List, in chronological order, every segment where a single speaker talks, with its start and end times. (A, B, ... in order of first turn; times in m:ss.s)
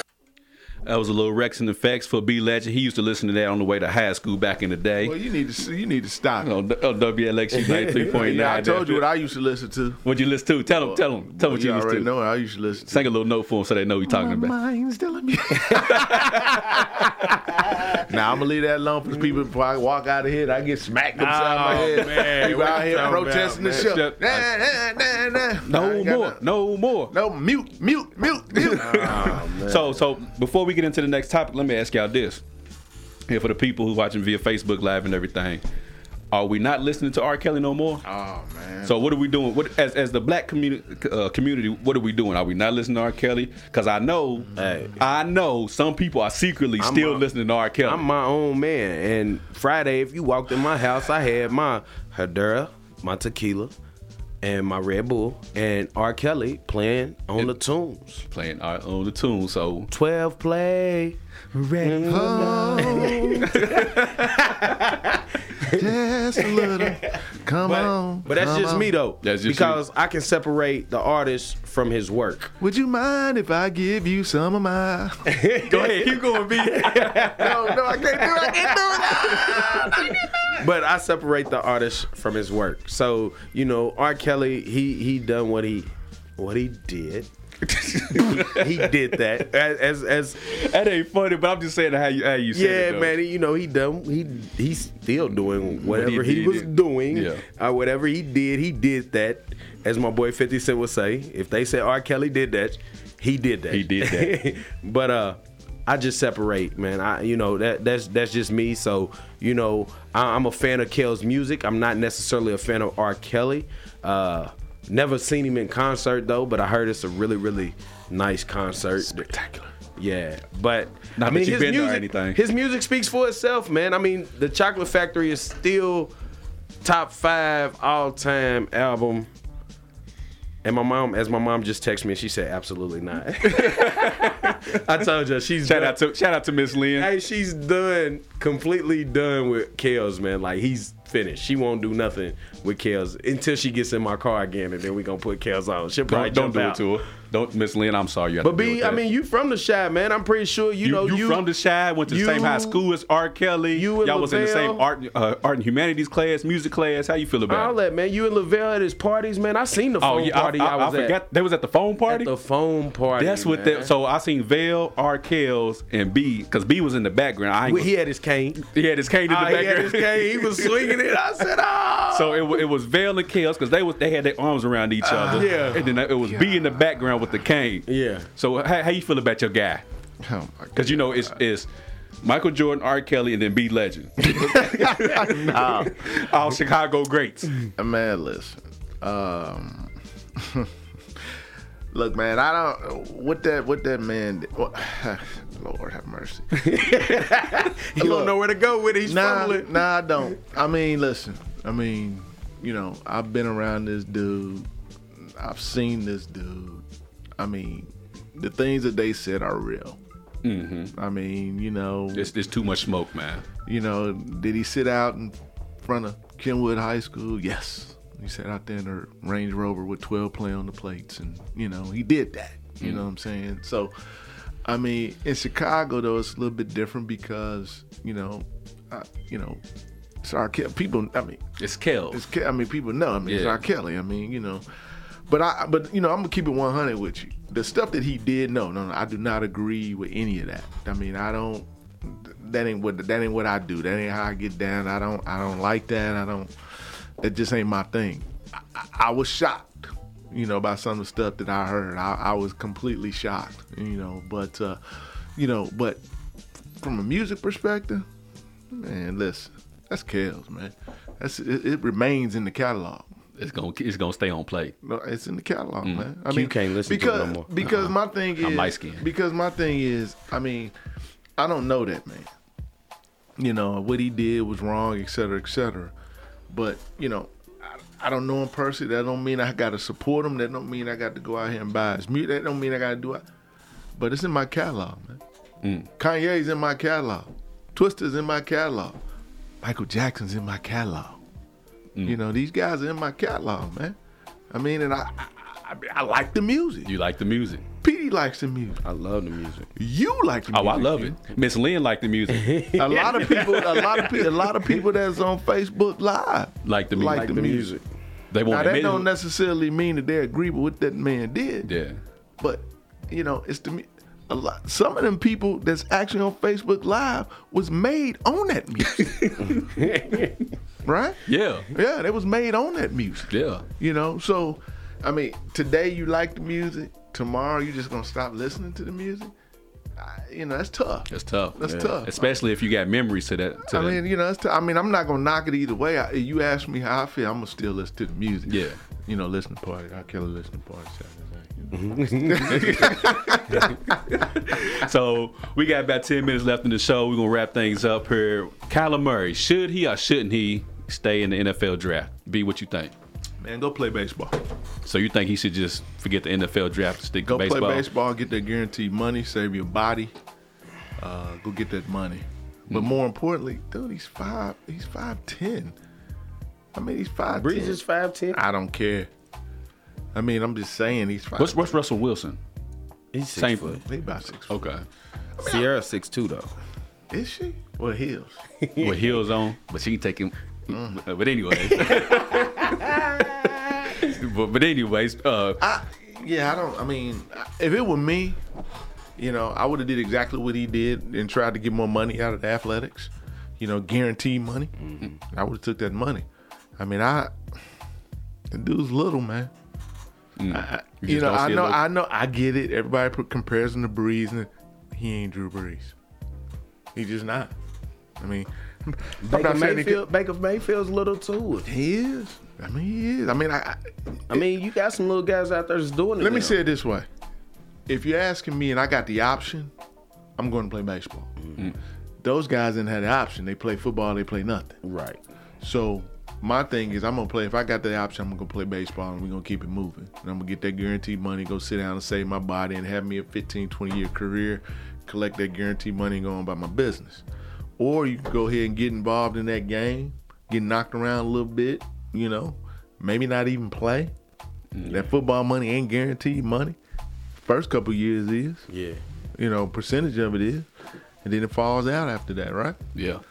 0:00.8-0:05.2 A
0:05.0-0:06.5 B
0:06.4-0:09.0 A
0:07.6-0:08.1 C
0:08.1-0:10.0 B
0:10.0-0:12.1 A
0:10.7-0:13.1 B
0:12.9-0:14.5 A
0:14.0-0:26.4 B
0:15.7-0:16.5 A
0:21.2-0:24.0 C
0:21.6-0:24.5 A
0:25.6-0:27.1 A
0:27.1-0:29.4 B
0:28.6-0:32.4 A
0:28.7-0:30.0 C
0:33.3-0:35.6 A
0:36.3-0:38.0 A
0:38.0-0:39.0 B
0:38.8-0:48.1 A
0:44.5-0:44.8 B
0:44.5-0:45.0 C
0:46.8-0:47.2 C
0:47.8-0:53.7 C
0:54.4-0:58.2 C
0:58.3-0:59.9 A
0:59.9-1:01.2 C
1:01.5-1:04.6 A
1:01.8-1:05.8 C
1:02.1-1:03.6 B
1:05.6-1:08.9 B
1:06.4-1:12.5 C
1:09.2-1:09.8 A
1:12.6-1:15.4 B
1:15.2-1:27.3 C
1:15.7-1:17.5 A
1:17.3-1:20.3 B
1:27.6-1:28.9 A
1:28.3-1:30.4 C
1:30.4-1:33.1 A
1:32.5-1:59.3 C
1:35.8-1:37.4 A
1:43.7-1:44.4 A
1:59.0-1:59.7 B
1:59.9-2:06.1 C
2:01.2-2:02.4 A
2:06.8-2:09.3 C
2:10.6-2:16.0 C
2:13.4-2:14.8 A
2:15.6-2:17.1 A
2:16.9-2:26.8 C
2:26.1-2:29.0 A
2:28.4-2:31.4 C
2:30.8-2:37.7 A
2:32.1-2:32.8 C
2:33.7-2:34.8 C
2:37.5-2:41.2 C
2:40.0-2:42.3 A
2:42.1-2:43.9 C
2:43.1-2:47.9 A
2:47.6-2:48.6 C
2:48.6-2:51.0 A
2:49.3-2:52.6 C
2:52.1-2:59.8 A
2:55.0-2:57.0 B
2:55.3-2:55.8 C
2:57.9-2:58.3 C
3:00.2-3:01.4 B
3:00.7-3:01.7 A
3:02.2-3:07.7 A
3:04.3-3:06.0 B
3:07.8-3:10.7 B
3:11.9-3:17.0 B
3:16.5-3:19.8 C
3:17.9-3:18.4 B
3:19.0-3:26.8 B
3:27.4-3:30.0 B
3:30.4-3:30.9 A
3:30.9-3:32.3 B
3:32.1-3:33.4 A
3:33.6-3:43.9 B
3:44.6-3:49.6 B
3:50.2-3:51.4 B
3:51.6-3:52.2 A
3:52.1-3:54.6 B
3:53.2-3:53.6 A
3:55.3-4:06.5 B
4:07.2-4:16.0 B
4:16.8-4:18.0 B
4:18.7-4:23.1 B
4:23.4-4:24.7 A
4:24.8-4:30.7 B
4:26.3-4:27.5 C
4:27.6-4:29.0 A
4:31.4-4:32.3 B
4:33.4-4:35.9 B
4:36.5-4:43.2 B
4:43.9-4:45.2 B
4:45.6-4:45.9 A
4:46.0-4:49.0 B
4:49.6-4:51.2 B
4:52.0-4:54.0 B
4:54.5-4:56.9 B
4:56.8-4:57.6 A
4:57.8-4:58.8 B
4:58.8-4:59.7 C
4:59.7-5:01.2 B
5:00.5-5:04.0 A
5:02.3-5:04.3 C
5:02.8-5:07.7 B
5:06.6-5:07.4 A
5:07.1-5:07.8 C
5:08.3-5:09.1 A
5:08.4-5:11.7 B
5:11.6-5:12.0 A
5:12.4-5:19.5 B
5:18.9-5:19.5 A
5:19.4-5:20.4 C
5:20.8-5:29.3 B
5:21.3-5:21.7 A
5:23.3-5:23.6 A
5:30.0-5:32.4 B
5:31.1-5:34.0 A
5:33.7-5:44.0 B
5:38.5-5:38.8 A
5:41.7-5:42.8 C
5:42.5-5:52.9 A
5:53.4-5:54.4 B
5:54.8-5:57.8 A
5:57.2-6:00.1 B
6:01.0-6:05.7 B
6:06.7-6:07.8 B
6:07.3-6:08.4 C
6:08.3-6:09.1 B
6:10.1-6:11.7 B
6:11.4-6:12.4 A
6:13.1-6:13.8 C
6:13.4-6:13.8 A
6:13.8-6:14.6 B
6:14.5-6:14.8 A
6:15.4-6:15.6 B
6:15.4-6:16.5 C
6:17.1-6:18.4 B
6:18.6-6:19.2 C
6:18.8-6:23.1 A
6:20.7-6:21.0 B
6:21.7-6:23.9 C
6:24.0-6:25.6 A
6:25.6-6:28.4 B
6:29.2-6:36.2 B
6:34.9-6:35.1 C
6:36.8-6:37.3 B
6:38.5-6:39.5 B
6:40.4-6:41.8 A
6:40.5-6:45.9 B
6:46.9-6:47.5 B
6:48.2-6:50.0 B
6:49.2-6:51.7 C
6:51.6-6:54.4 B
6:54.3-6:56.6 C
6:56.2-6:57.1 B
6:57.9-6:59.7 B
7:00.4-7:01.4 B
7:01.4-7:01.7 C
7:02.2-7:04.8 B
7:04.8-7:05.2 C
7:05.6-7:17.2 B
7:17.8-7:24.1 B
7:24.7-7:25.1 A
7:24.9-7:26.8 B
7:27.3-7:28.6 B
7:28.7-7:29.0 C
7:29.4-7:30.7 B
7:31.2-7:32.8 B
7:32.9-7:33.2 A